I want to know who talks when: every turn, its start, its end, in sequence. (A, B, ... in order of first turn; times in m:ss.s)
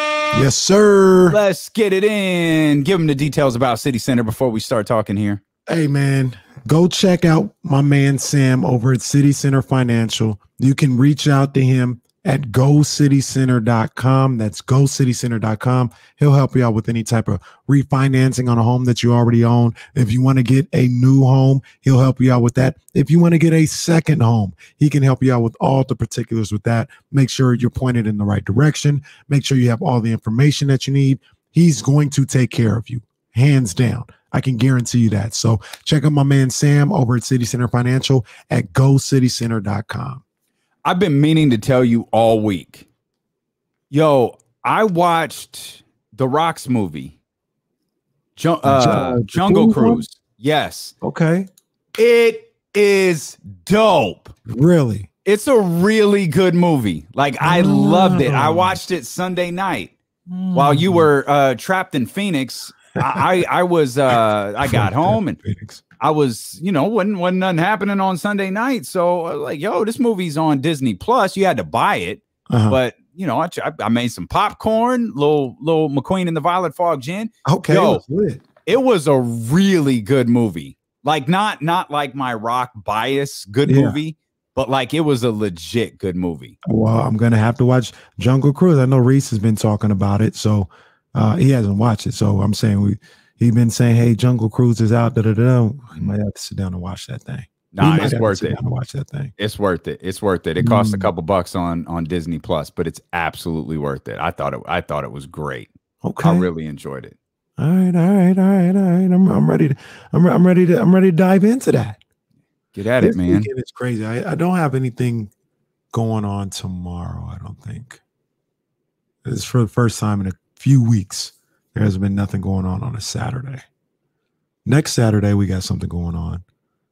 0:00.3-0:01.4 A
0:01.3-0:05.4 B
0:05.7-0:40.2 A
0:40.8-0:42.9 B
0:43.9-0:47.2 B
0:48.4-0:50.9 B
0:48.6-0:50.0 A
0:51.0-0:51.5 A
0:52.0-0:54.3 B
0:54.5-0:55.1 A
0:55.2-0:59.9 B
0:57.4-0:58.8 A
1:00.3-1:01.1 A
1:00.5-1:05.4 B
1:04.6-1:05.8 A
1:06.0-1:18.0 B
1:12.5-1:12.8 A
1:17.5-1:18.4 A
1:18.6-1:26.6 B
1:23.6-1:24.0 A
1:26.7-1:39.3 A
1:37.7-1:38.6 B
1:39.4-1:47.2 B
1:40.6-1:41.1 A
1:46.0-1:46.5 A
1:47.6-1:52.0 A
1:52.7-1:53.5 B
1:53.0-1:55.3 A
1:55.9-1:58.0 A
1:59.2-2:03.6 A
2:04.7-2:06.4 A